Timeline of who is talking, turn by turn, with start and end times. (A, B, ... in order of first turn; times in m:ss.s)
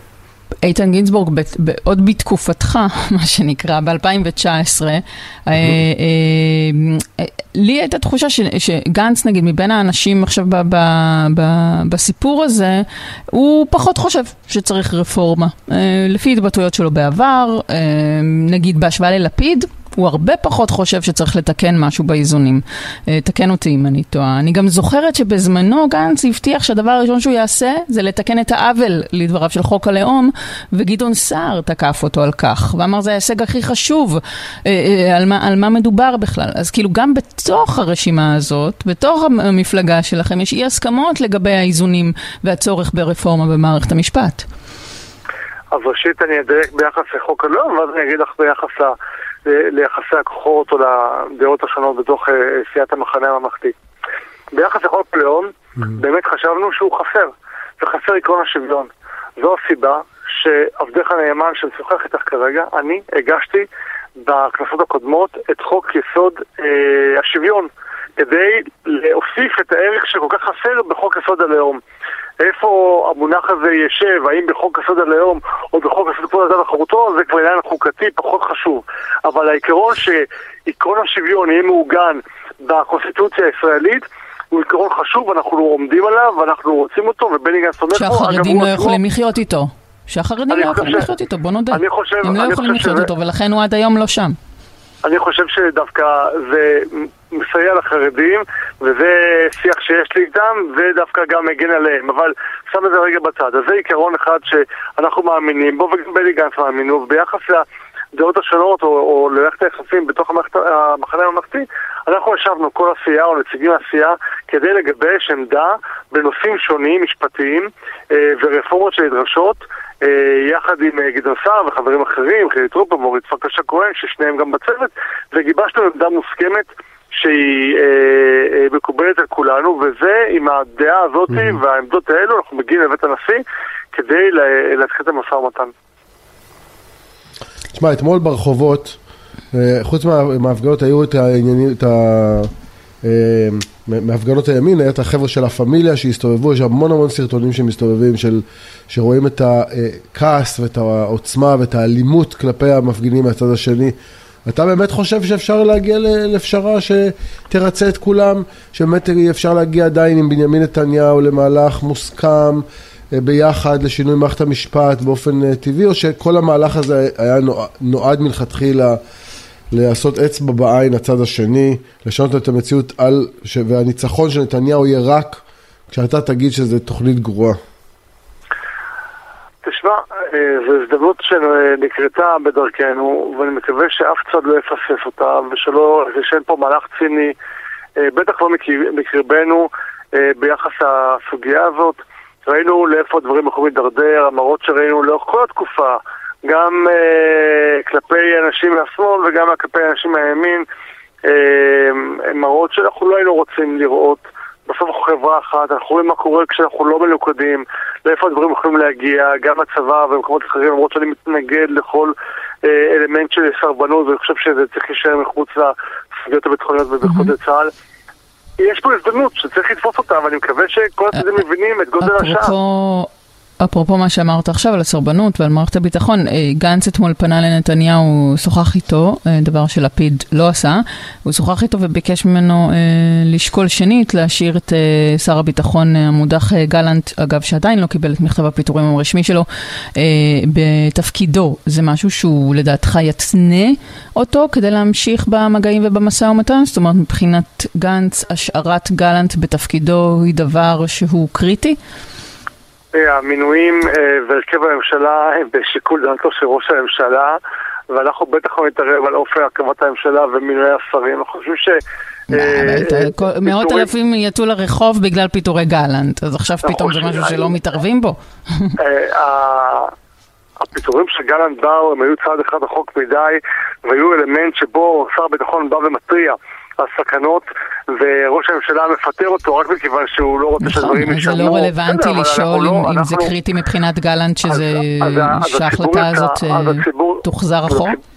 0:00.6-0:44.4 A
0:45.7-0:53.7 B
0:54.5-1:03.7 B
1:04.2-1:11.8 B
1:12.4-1:29.0 B
1:27.9-1:34.4 A
1:30.5-1:31.1 B
1:31.7-1:33.1 B
1:35.0-2:15.7 B
2:17.7-2:19.0 C
2:19.5-2:22.5 C
2:23.0-2:33.9 C
2:34.4-2:49.0 C
2:49.7-2:57.6 C
2:59.6-3:07.4 B
3:08.0-3:20.6 B
3:21.2-3:37.7 B
3:37.0-3:37.3 A
3:38.6-3:42.5 B
3:42.0-4:11.8 A
4:12.9-4:17.4 B
4:17.9-4:21.8 B
4:22.3-4:28.7 A
4:22.3-4:23.9 B
4:26.6-4:27.5 B
4:28.8-4:29.9 B
4:30.6-4:43.3 B
4:40.6-4:48.0 A
4:44.5-4:48.0 B